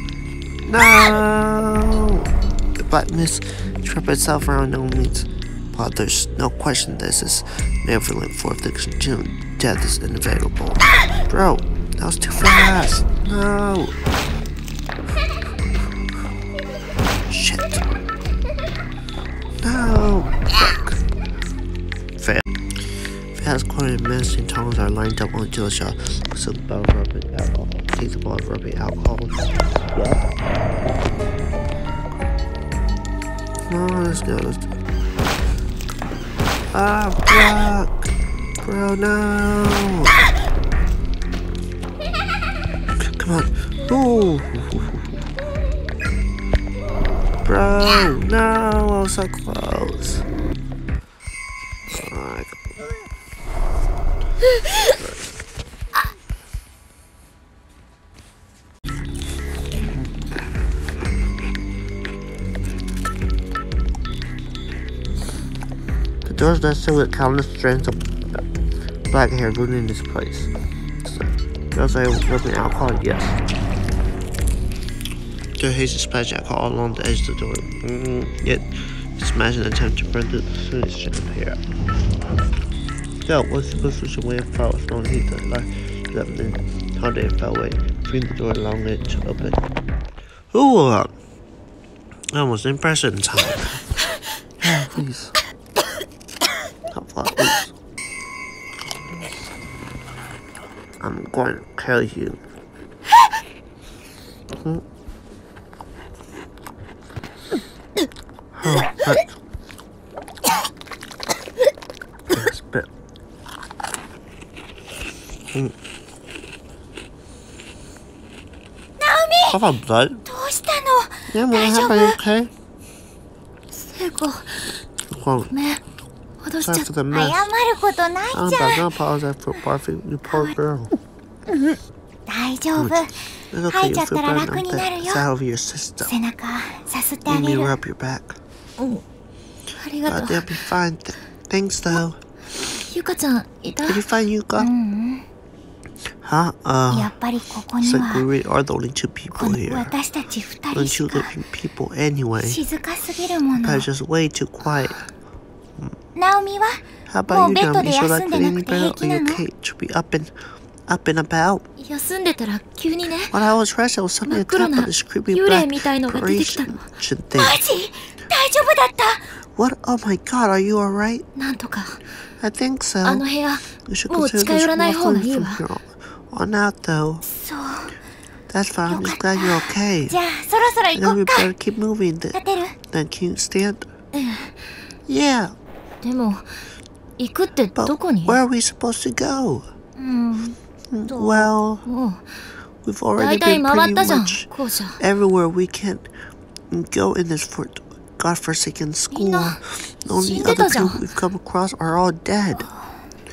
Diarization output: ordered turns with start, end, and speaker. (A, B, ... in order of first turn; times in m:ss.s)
0:00.6-0:14.0 A
0:17.3-0:17.8 A
0:19.6-0:21.0 A
0:22.2-0:22.4 A
0:23.3-0:29.4 A
0:29.9-0:30.4 A
0:33.7-0:34.7 A
0:36.7-0:40.1 A
0:43.0-0:45.1 A
0:47.4-0:50.2 A
0:51.9-0:52.6 A
1:06.2-1:08.4 A
1:09.1-1:10.5 A
1:11.0-1:13.4 A
1:15.6-1:21.6 A
1:23.2-1:29.7 A
1:30.5-1:31.1 A
1:32.3-1:34.0 A
1:34.6-1:35.4 A
1:36.9-1:37.7 A
1:41.0-1:42.4 A
1:48.5-1:49.4 A
1:52.3-1:52.9 A
1:59.0-1:59.6 B
1:59.5-2:00.2 A
2:00.3-2:02.2 B
2:01.3-2:02.5 A
2:03.7-2:04.8 C
2:05.1-2:05.5 A
2:05.5-2:05.8 C
2:06.4-2:06.9 C
2:06.6-2:07.4 A
2:07.1-2:08.9 B
2:08.3-2:11.0 A
2:10.3-2:10.6 B
2:12.3-2:15.2 B
2:12.8-2:16.1 A
2:16.0-2:17.8 B
2:17.3-2:18.4 A
2:18.8-2:19.0 C
2:19.8-2:20.5 C
2:20.1-2:22.2 A
2:22.6-2:24.0 C
2:23.9-2:24.7 A
2:24.6-2:25.3 B
2:26.2-2:27.1 A
2:26.9-2:28.3 B
2:27.8-2:29.9 A
2:29.4-2:31.3 B
2:30.7-2:32.6 A
2:32.4-2:33.9 B
2:33.5-2:35.1 A
2:36.2-2:39.4 B
2:37.1-2:40.3 A
2:40.9-2:41.7 A
2:41.8-2:43.3 C
2:43.3-2:47.6 A
2:44.3-2:46.8 C
2:47.4-2:49.3 B
2:49.5-2:51.3 A
2:51.4-2:52.0 C
2:52.4-2:53.2 A
2:53.0-2:55.6 C
2:53.8-2:57.2 A
2:57.2-2:58.0 B
2:58.5-3:00.2 A
2:58.9-3:01.5 B
3:00.9-3:03.9 A
3:02.3-3:02.8 B
3:04.2-3:04.6 C
3:05.1-3:05.5 A
3:06.0-3:06.6 C
3:07.2-3:08.4 C
3:07.8-3:09.7 A
3:10.0-3:10.6 B
3:10.9-3:11.8 A
3:11.1-3:11.5 B
3:11.9-3:12.4 C
3:12.8-3:16.1 A
3:13.2-3:15.0 C
3:16.7-3:22.7 A
3:19.1-3:19.6 B
3:20.1-3:21.1 C